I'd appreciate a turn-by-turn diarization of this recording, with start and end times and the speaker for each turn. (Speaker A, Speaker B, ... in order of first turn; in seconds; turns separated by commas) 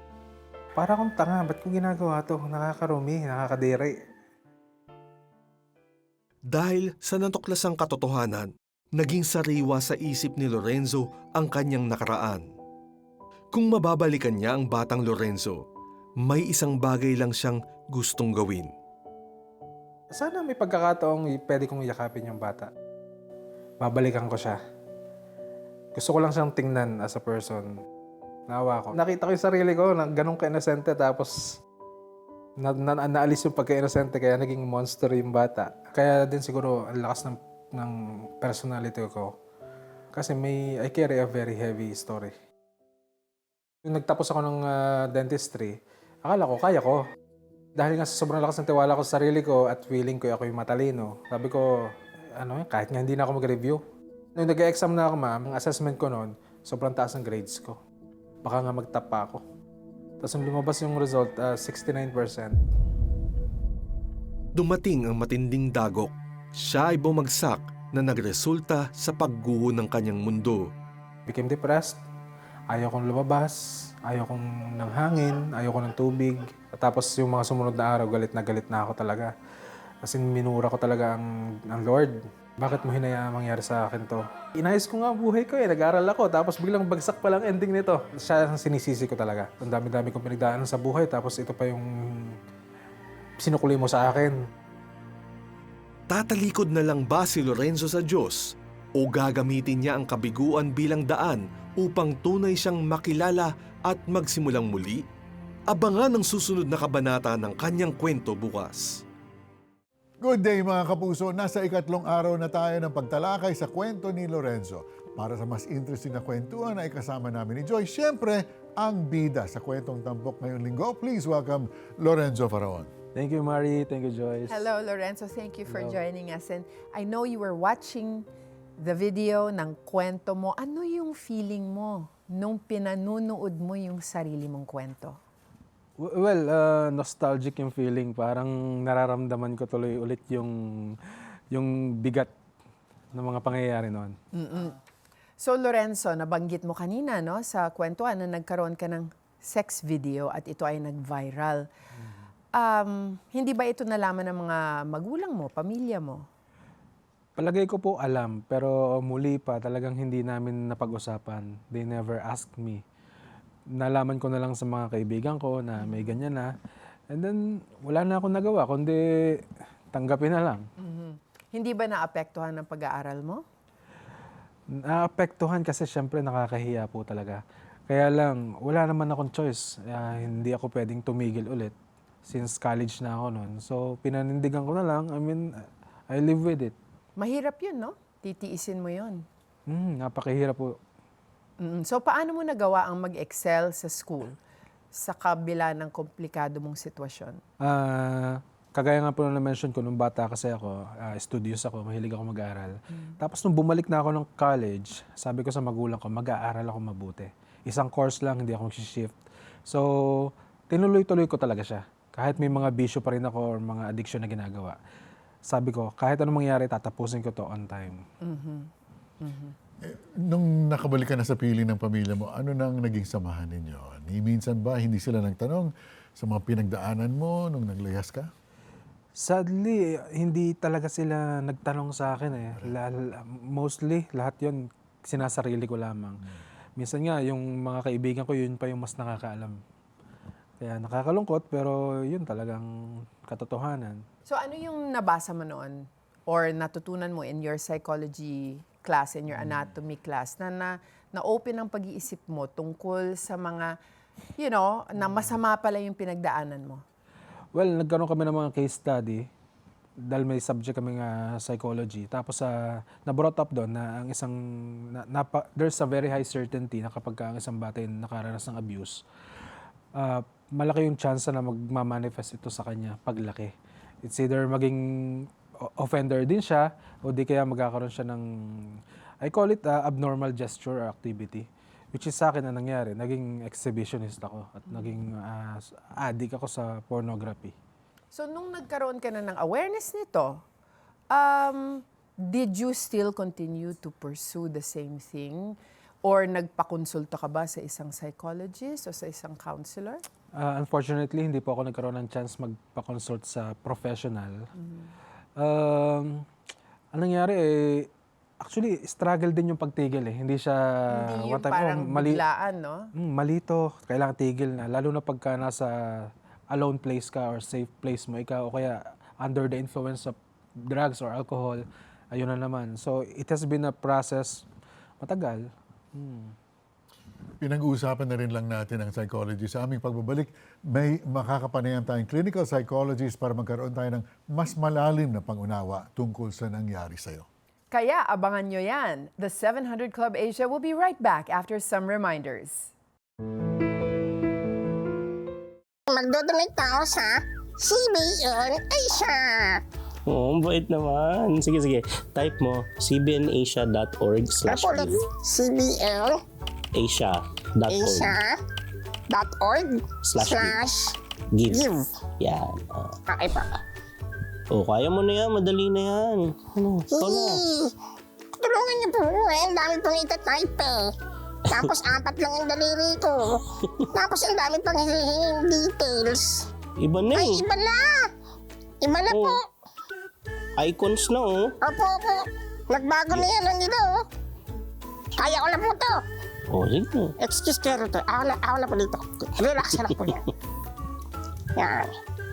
Speaker A: 0.8-4.0, Speaker B: 6.5-12.5, Speaker B: 13.5-15.6, Speaker B: 16.2-18.7, Speaker A: 20.1-22.7, Speaker A: 23.8-24.6, Speaker A: 26.0-27.7, Speaker A: 28.5-31.5, Speaker A: 32.6-39.3, Speaker A: 40.1-42.3, Speaker A: 43.9-47.0, Speaker A: 47.8-53.8, Speaker A: 54.4-57.8, Speaker A: 58.4-59.4, Speaker A: 60.2-62.6, Speaker B: 64.6-70.7, Speaker A: 71.3-72.0, Speaker A: 72.7-79.3, Speaker A: 80.0-92.4, Speaker A: 93.4-94.4, Speaker B: 96.1-105.0, Speaker B: 105.7-109.0, Speaker C: 110.2-122.9, Speaker A: 123.2-124.6, Speaker D: 124.5-128.3, Speaker A: 125.7-126.0, Speaker D: 128.8-135.2, Speaker A: 136.0-141.0, Speaker A: 141.5-142.3, Speaker A: 143.1-144.2, Speaker D: 144.3-144.8, Speaker D: 145.4-151.7, Speaker D: 152.5-156.3, Speaker A: 157.4-162.8, Speaker A: 163.7-166.5, Speaker D: 165.8-166.1, Speaker A: 167.1-169.4, Speaker A: 169.9-170.7, Speaker D: 170.8-173.4, Speaker A: 174.7-181.7, Speaker A: 182.3-185.4, Speaker A: 186.1-186.8, Speaker D: 187.2-189.2, Speaker A: 189.7-190.8, Speaker D: 191.6-194.4, Speaker D: 194.9-197.4, Speaker A: 197.6-209.2, Speaker A: 209.7-214.8, Speaker A: 215.5-218.0, Speaker D: 218.2-218.7, Speaker D: 219.2-219.6, Speaker C: 219.8-228.3, Speaker A: 229.2-236.3, Speaker A: 236.8-239.6, Speaker A: 240.6-242.7, Speaker A: 243.3-244.0, Speaker D: 244.3-253.8, Speaker D: 254.4-256.8, Speaker A: 257.5-259.3, Speaker A: 260.0-262.5, Speaker A: 263.0-264.4, Speaker A: 264.9-269.0, Speaker A: 269.9-273.5, Speaker A: 274.1-278.7, Speaker A: 279.2-287.5, Speaker D: 288.1-290.4, Speaker D: 291.1-300.0, Speaker A: 300.4-304.5, Speaker D: 304.6-304.9, Speaker A: 305.4-306.2, Speaker A: 306.9-307.9, Speaker A: 308.4-312.2, Speaker D: 310.9-312.9, Speaker A: 313.0-324.4, Speaker A: 325.0-326.4, Speaker C: 327.4-337.3, Speaker D: 337.7-342.7, Speaker E: 345.9-349.6, Speaker F: 350.1-355.0, Speaker E: 354.4-356.2, Speaker F: 356.8-358.1, Speaker E: 357.7-358.4, Speaker E: 359.1-360.9, Speaker F: 360.1-360.6, Speaker F: 361.3-361.6, Speaker E: 361.5-361.8, Speaker F: 362.2-363.0, Speaker E: 363.1-363.5, Speaker F: 364.5-367.4, Speaker E: 366.9-367.7, Speaker E: 368.4-370.9, Speaker E: 371.5-373.4, Speaker E: 373.9-376.4, Speaker F: 376.8-377.4, Speaker E: 377.1-378.0, Speaker E: 378.8-379.4, Speaker F: 379.1-379.4, Speaker F: 380.6-381.5, Speaker E: 381.6-384.0, Speaker E: 385.2-386.0, Speaker F: 386.5-387.1, Speaker E: 387.2-390.2, Speaker E: 391.6-391.9